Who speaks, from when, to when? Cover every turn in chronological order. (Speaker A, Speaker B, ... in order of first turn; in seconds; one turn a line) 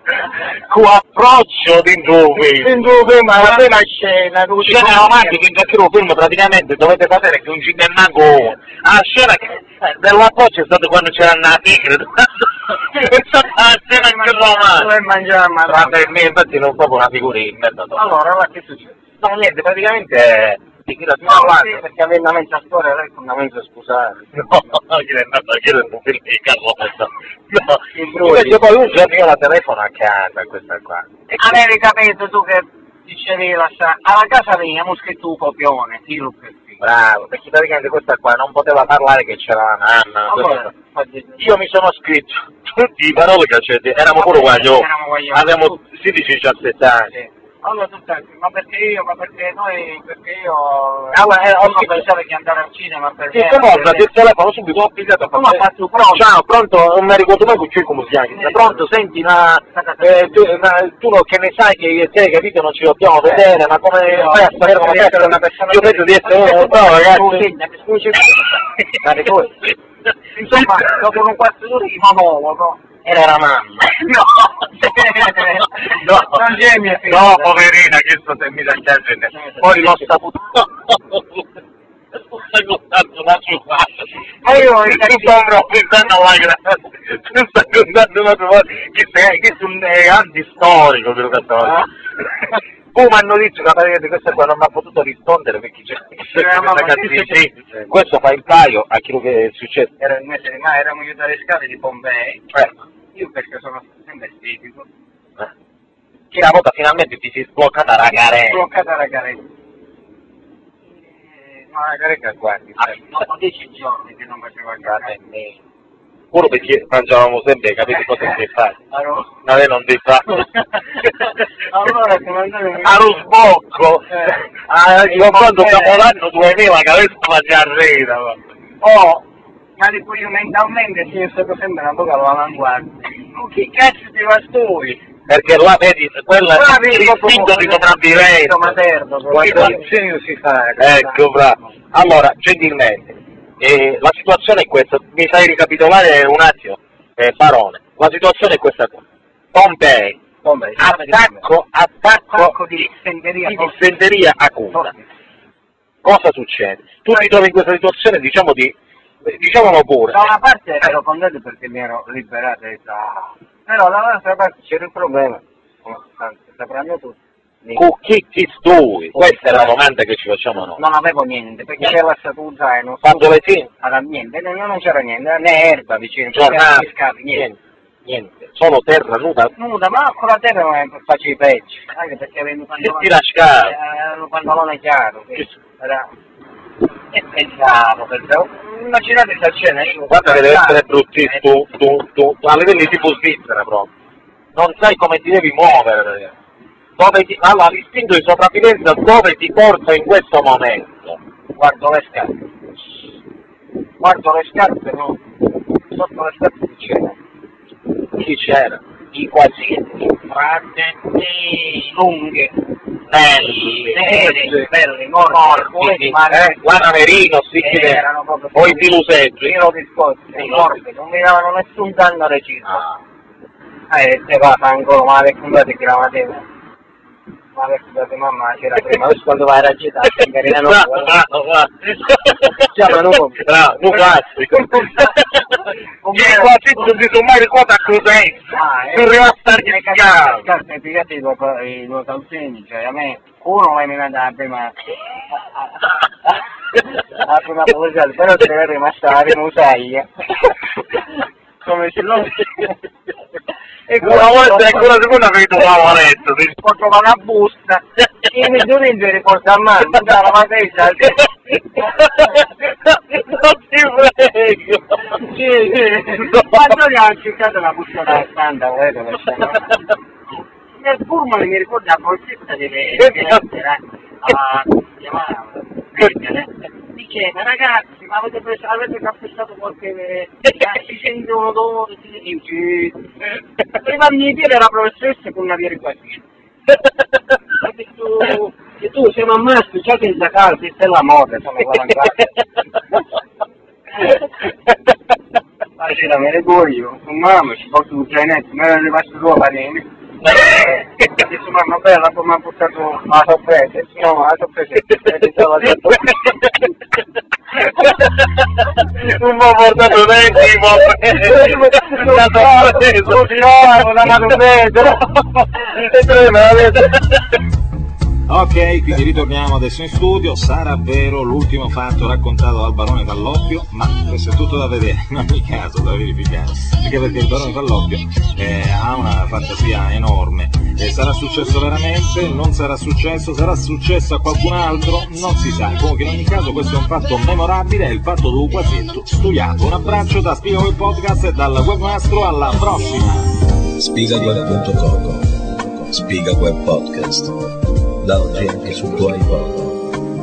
Speaker A: 0.2-2.8
Speaker B: 2.4-5.4
Speaker A: 3.4-3.6
Speaker A: 4.6-14.9
Speaker B: 13.5-16.1
Speaker A: 15.7-18.1
Speaker B: 17.9-19.0
Speaker A: 19.2-21.8
Speaker B: 21.2-24.3
Speaker A: 24.4-31.1
Speaker B: 27.9-28.6
Speaker B: 31.3-36.8
Speaker A: 36.8-40.7
Speaker B: 40.3-41.5
Speaker A: 41.4-47.1
Speaker B: 44.1-45.8
Speaker B: 47.1-54.1
Speaker A: 51.1-52.0
Speaker A: 53.3-67.5
Speaker B: 55.3-56.2
Speaker B: 58.3-58.9
Speaker B: 59.7-60.6
Speaker B: 64.0-69.7
Speaker B: 70.3-73.0
Speaker A: 73.0-73.9
Speaker B: 73.8-77.6
Speaker A: 75.2-76.4
Speaker A: 77.1-81.5
Speaker B: 79.3-80.1
Speaker A: 82.1-91.8
Speaker B: 84.4-85.4
Speaker A: 92.9-99.9
Speaker B: 96.2-98.0
Speaker B: 100.0-102.5
Speaker B: 103.1-104.9
Speaker A: 106.3-108.6
Speaker B: 108.4-109.4
Speaker B: 111.1-115.2
Speaker A: 114.9-115.5
Speaker A: 116.3-118.8
Speaker B: 118.0-118.4
Speaker B: 118.9-119.3
Speaker A: 119.4-121.0
Speaker B: 121.0-123.2
Speaker A: 122.8-128.4
Speaker B: 124.1-124.4
Speaker B: 125.0-126.0
Speaker B: 128.8-129.2
Speaker B: 129.8-135.0
Speaker A: 135.3-138.7
Speaker B: 136.5-141.7
Speaker A: 139.3-139.8
Speaker A: 140.8-150.2
Speaker B: 150.4-151.4
Speaker A: 150.8-152.6
Speaker B: 152.3-153.9
Speaker A: 153.5-154.9
Speaker B: 154.7-155.0
Speaker A: 156.0-160.2
Speaker B: 160.1-167.8
Speaker A: 167.8-170.8
Speaker B: 169.1-169.8
Speaker B: 170.6-177.5
Speaker A: 173.0-173.7
Speaker A: 176.3-179.5
Speaker B: 179.6-186.1
Speaker A: 182.8-183.7
Speaker B: 187.1-191.5
Speaker A: 190.1-193.9
Speaker A: 194.6-196.3
Speaker A: 197.0-201.2
Speaker B: 201.6-202.3
Speaker B: 204.0-205.2
Speaker B: 205.9-207.2
Speaker A: 208.2-208.8
Speaker B: 209.1-212.6
Speaker A: 213.1-214.6
Speaker B: 213.8-216.6
Speaker A: 215.3-218.0
Speaker B: 217.6-218.9
Speaker A: 218.6-219.5
Speaker B: 219.4-222.9
Speaker A: 220.4-220.7
Speaker B: 223.9-226.4
Speaker B: 227.6-231.1
Speaker A: 230.5-235.4
Speaker B: 232.6-235.1
Speaker B: 236.0-236.8
Speaker A: 236.1-240.5
Speaker B: 238.5-251.0
Speaker B: 251.6-252.7
Speaker B: 253.9-255.1
Speaker A: 254.0-256.6
Speaker B: 256.6-262.4
Speaker A: 261.9-265.2
Speaker B: 265.1-269.9
Speaker A: 266.3-266.7
Speaker B: 270.8-283.1
Speaker A: 273.0-273.4
Speaker B: 283.7-286.2
Speaker B: 287.5-292.4
Speaker B: 294.0-294.2
Speaker B: 295.8-306.5
Speaker A: 300.2-300.7
Speaker A: 305.8-306.5
Speaker A: 308.8-314.9
Speaker B: 311.1-314.9
Speaker A: 315.6-317.2
Speaker C: 318.3-343.3
Speaker D: 343.8-347.3
Speaker D: 348.0-349.9